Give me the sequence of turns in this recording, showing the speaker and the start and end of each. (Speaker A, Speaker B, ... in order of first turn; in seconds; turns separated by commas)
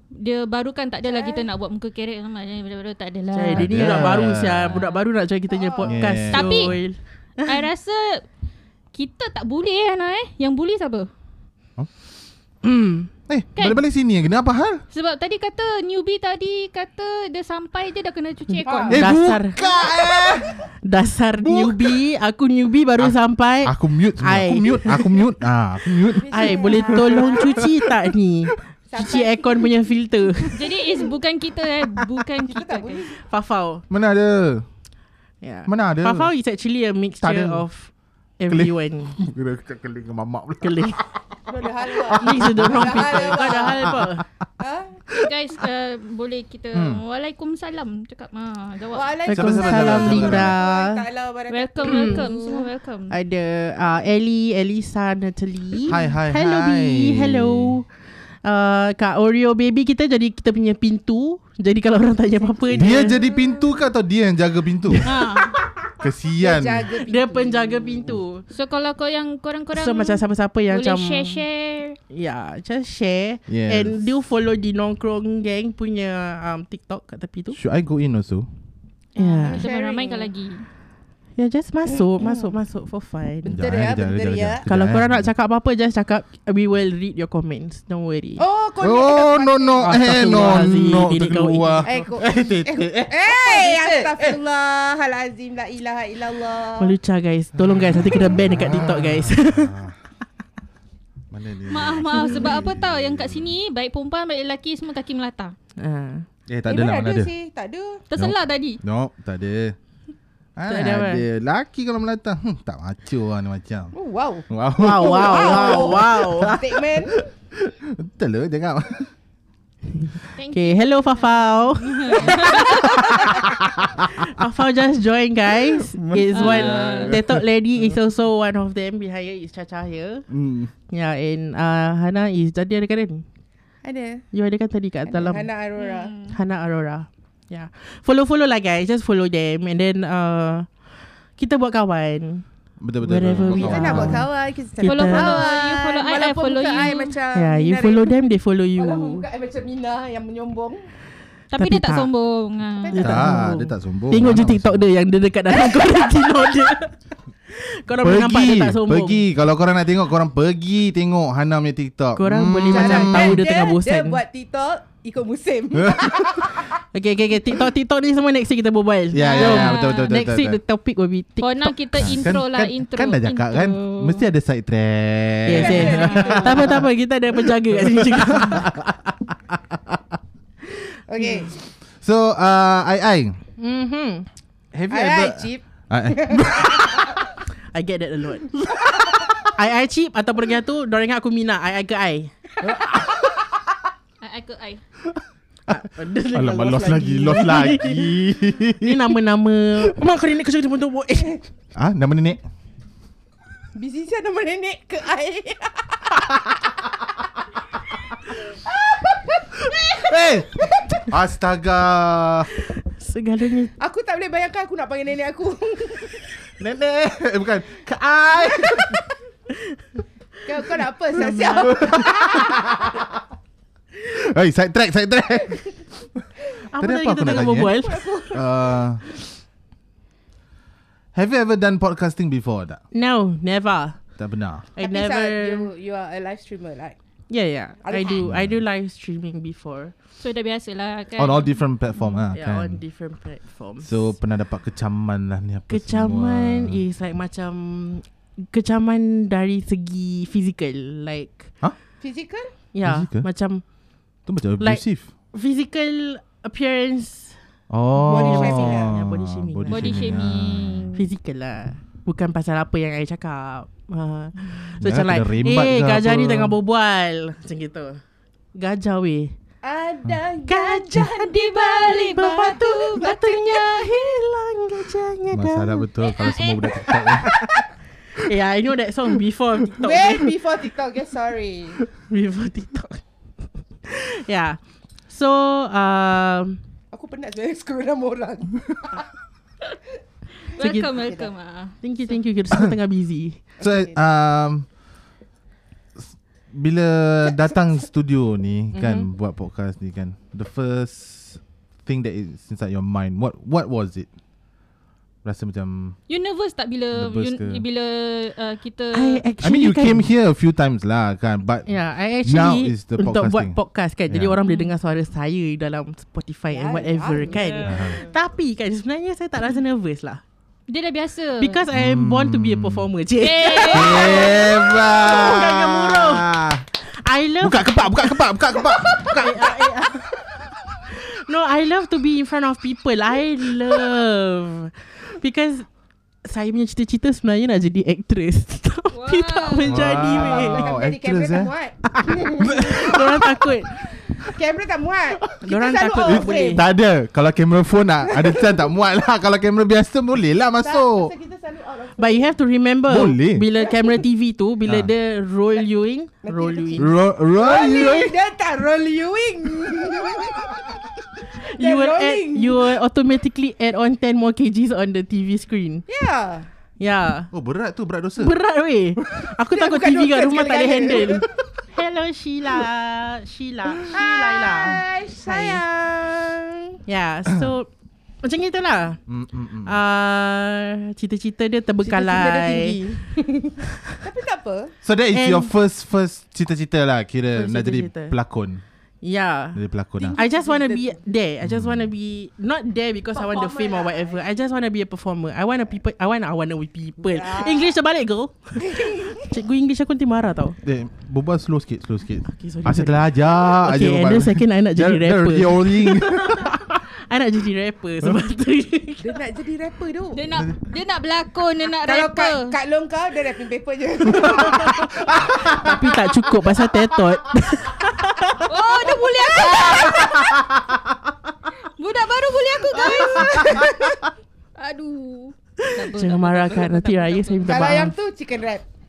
Speaker A: 0.1-4.2, Speaker B: 1.0-1.5, Speaker C: 3.3-7.6, Speaker D: 3.5-4.8, Speaker A: 4.7-5.0, Speaker B: 5.5-5.9, Speaker D: 5.8-6.8, Speaker A: 6.3-6.8, Speaker A: 7.4-8.2, Speaker A: 8.9-11.1, Speaker C: 12.6-13.1, Speaker D: 13.3-14.8, Speaker A: 14.9-19.0, Speaker B: 18.5-19.0, Speaker D: 18.9-20.6, Speaker C: 18.9-19.6, Speaker B: 19.6-20.4, Speaker C: 20.8-25.2, Speaker D: 21.4-22.0, Speaker D: 23.0-27.7, Speaker B: 26.2-27.7, Speaker C: 26.3-30.6, Speaker B: 28.9-29.8, Speaker A: 30.5-33.1, Speaker B: 30.7-31.0, Speaker B: 32.4-33.2, Speaker C: 33.2-33.8, Speaker D: 33.9-34.6, Speaker C: 35.4-39.2, Speaker D: 35.7-36.3, Speaker D: 37.2-37.7, Speaker D: 38.5-41.4, Speaker C: 40.6-41.0, Speaker B: 41.5-44.0, Speaker D: 41.9-44.1, Speaker C: 42.1-44.2, Speaker B: 44.6-45.1, Speaker A: 45.1-49.2, Speaker D: 46.7-47.0, Speaker B: 48.9-52.7, Speaker D: 49.3-50.6, Speaker C: 49.3-51.0, Speaker A: 51.5-53.1, Speaker C: 51.8-52.3, Speaker C: 53.1-57.9, Speaker D: 55.9-57.8, Speaker C: 58.4-63.2, Speaker B: 62.6-63.7, Speaker D: 62.7-65.1, Speaker A: 65.0-65.5, Speaker D: 66.0-66.9, Speaker B: 66.4-68.1, Speaker C: 67.0-68.4, Speaker A: 68.5-72.0, Speaker C: 69.7-71.4, Speaker C: 72.1-77.6, Speaker D: 73.5-74.1, Speaker D: 77.5-78.5, Speaker C: 79.2-79.7, Speaker A: 79.2-80.7, Speaker B: 79.4-80.3, Speaker C: 81.4-83.6, Speaker B: 82.2-82.5, Speaker B: 83.4-84.6, Speaker D: 83.5-85.3, Speaker C: 84.7-88.4, Speaker B: 88.4-89.9, Speaker D: 88.8-94.4, Speaker C: 89.8-92.1, Speaker B: 91.8-97.0, Speaker C: 96.8-99.7, Speaker D: 97.6-100.0, Speaker D: 101.3-103.5, Speaker A: 101.7-105.5, Speaker C: 105.8-106.3, Speaker D: 106.5-107.3, Speaker B: 106.7-108.0, Speaker A: 108.1-108.8, Speaker D: 108.2-109.8, Speaker D: 110.6-113.9, Speaker C: 110.7-111.2, Speaker B: 113.9-117.2, Speaker D: 114.5-119.1, Speaker C: 114.8-116.6, Speaker C: 120.1-123.3, Speaker A: 120.3-123.2, Speaker B: 122.2-122.9, Speaker D: 122.8-124.3, Speaker C: 124.2-130.2, Speaker D: 125.7-128.0, Speaker A: 126.3-127.2, Speaker D: 130.3-130.7, Speaker C: 130.9-133.2, Speaker B: 133.8-134.2, Speaker C: 134.3-135.5, Speaker B: 135.1-136.1, Speaker A: 135.8-136.3, Speaker C: 136.3-140.7, Speaker C: 141.4-142.4, Speaker D: 142.8-144.2, Speaker C: 143.0-145.5, Speaker B: 143.4-148.1, Speaker A: 144.8-147.2, Speaker C: 147.3-149.3, Speaker B: 148.8-150.9, Speaker A: 151.5-153.1, Speaker C: 151.6-152.1, Speaker B: 152.8-153.2, Speaker C: 152.9-157.0, Speaker D: 153.0-154.9, Speaker B: 155.7-156.5, Speaker C: 157.5-159.2, Speaker D: 158.0-163.4, Speaker C: 162.2-164.2, Speaker B: 162.7-166.8, Speaker D: 165.8-166.3, Speaker C: 166.9-172.3, Speaker D: 169.1-170.6, Speaker A: 169.2-170.1, Speaker A: 171.4-174.3, Speaker D: 172.0-176.8, Speaker C: 175.4-178.7, Speaker B: 175.5-176.8, Speaker A: 175.9-176.4, Speaker D: 177.7-180.0, Speaker B: 181.1-181.5, Speaker D: 182.0-183.4, Speaker C: 183.6-184.3, Speaker D: 184.7-187.2, Speaker B: 184.9-187.2, Speaker C: 187.7-192.3, Speaker D: 192.6-193.1, Speaker A: 194.2-194.8, Speaker D: 195.1-195.8, Speaker C: 195.7-201.4, Speaker D: 196.3-199.0, Speaker D: 201.8-202.4, Speaker B: 203.8-206.9, Speaker B: 208.3-211.0, Speaker D: 210.0-212.5, Speaker C: 212.8-213.7, Speaker B: 213.8-216.3, Speaker D: 216.6-218.9, Speaker B: 218.4-218.8, Speaker B: 220.5-222.9, Speaker C: 221.2-221.9, Speaker D: 221.6-223.0, Speaker D: 224.0-227.8, Speaker C: 226.7-228.4, Speaker B: 227.3-228.8, Speaker D: 228.3-229.0, Speaker D: 231.1-232.8, Speaker C: 232.9-234.0, Speaker D: 234.2-234.7, Speaker C: 234.8-235.7, Speaker B: 234.8-237.0, Speaker C: 237.3-239.9, Speaker B: 237.8-238.2, Speaker D: 238.2-238.6, Speaker A: 240.2-241.5, Speaker D: 241.2-242.8, Speaker C: 242.3-244.1, Speaker D: 243.8-246.8, Speaker C: 245.7-251.5, Speaker B: 252.0-252.5, Speaker C: 252.7-253.6, Speaker D: 252.8-253.3, Speaker D: 254.3-255.1, Speaker C: 254.6-257.4, Speaker D: 257.7-261.0, Speaker C: 258.0-260.1, Speaker B: 258.0-258.9, Speaker A: 259.7-261.0, Speaker C: 260.9-268.0, Speaker D: 264.8-266.6, Speaker C: 268.6-269.3, Speaker B: 269.6-272.5, Speaker C: 270.5-275.9, Speaker A: 271.0-273.9, Speaker D: 275.3-277.4, Speaker A: 276.0-277.0, Speaker C: 277.2-277.5, Speaker C: 278.2-280.3, Speaker B: 279.8-281.8, Speaker C: 281.8-283.0, Speaker C: 283.8-286.6, Speaker B: 286.9-289.0, Speaker A: 290.4-291.8, Speaker C: 290.6-291.0, Speaker B: 290.9-291.3, Speaker C: 291.8-293.4, Speaker B: 293.6-294.0, Speaker D: 293.6-294.7, Speaker D: 296.0-304.1, Speaker C: 298.7-299.1, Speaker D: 305.2-306.0, Speaker A: 306.1-309.2, Speaker D: 306.9-307.6, Speaker C: 308.9-310.1, Speaker D: 309.4-311.7, Speaker C: 311.7-320.2, Speaker D: 312.2-313.6, Speaker D: 314.1-314.4, Speaker A: 314.4-314.7, Speaker B: 316.5-318.1, Speaker A: 317.3-317.7, Speaker D: 317.6-318.0, Speaker A: 320.7-321.6, Speaker C: 321.4-330.2, Speaker D: 321.7-322.9, Speaker A: 323.2-324.5, Speaker D: 323.6-326.6, Speaker D: 327.4-329.8, Speaker C: 330.9-335.7, Speaker C: 336.2-340.7, Speaker A: 338.9-339.8, Speaker D: 339.7-341.5, Speaker B: 339.8-343.0, Speaker D: 342.1-343.4, Speaker C: 342.4-343.9, Speaker B: 343.9-346.6, Speaker C: 345.4-346.7, Speaker D: 346.0-351.1, Speaker B: 348.1-348.6, Speaker B: 350.6-352.3, Speaker C: 352.0-356.9, Speaker D: 352.9-353.4, Speaker B: 356.2-360.7, Speaker D: 356.8-358.1, Speaker B: 361.3-362.7, Speaker C: 361.4-365.9, Speaker B: 365.9-366.5, Speaker C: 366.8-367.3, Speaker D: 367.3-368.3, Speaker C: 368.2-375.6, Speaker B: 369.5-371.3, Speaker B: 373.8-376.7, Speaker C: 376.9-377.7, Speaker C: 378.2-379.0, Speaker D: 379.1-379.8, Speaker C: 379.6-382.8, Speaker B: 381.8-384.8, Speaker D: 384.8-388.6, Speaker C: 385.1-385.5, Speaker C: 387.3-388.2, Speaker C: 389.0-389.6, Speaker D: 389.6-390.2, Speaker B: 390.0-391.0, Speaker C: 390.1-400.6, Speaker D: 391.4-391.9, Speaker B: 393.1-394.2, Speaker B: 397.0-397.7, Speaker B: 398.6-399.3, Speaker D: 400.6-406.8, Speaker C: 402.3-409.2, Speaker B: 409.0-410.2, Speaker A: 410.1-412.6, Speaker B: 411.8-415.8, Speaker C: 414.1-414.7, Speaker D: 414.2-415.8, Speaker C: 415.3-418.5, Speaker A: 418.5-420.4, Speaker B: 418.8-420.2, Speaker D: 419.6-420.9, Speaker A: 421.6-423.9, Speaker D: 422.7-423.9, Speaker B: 423.1-423.6, Speaker A: 424.6-427.8, Speaker C: 425.6-428.0, Speaker B: 427.5-428.6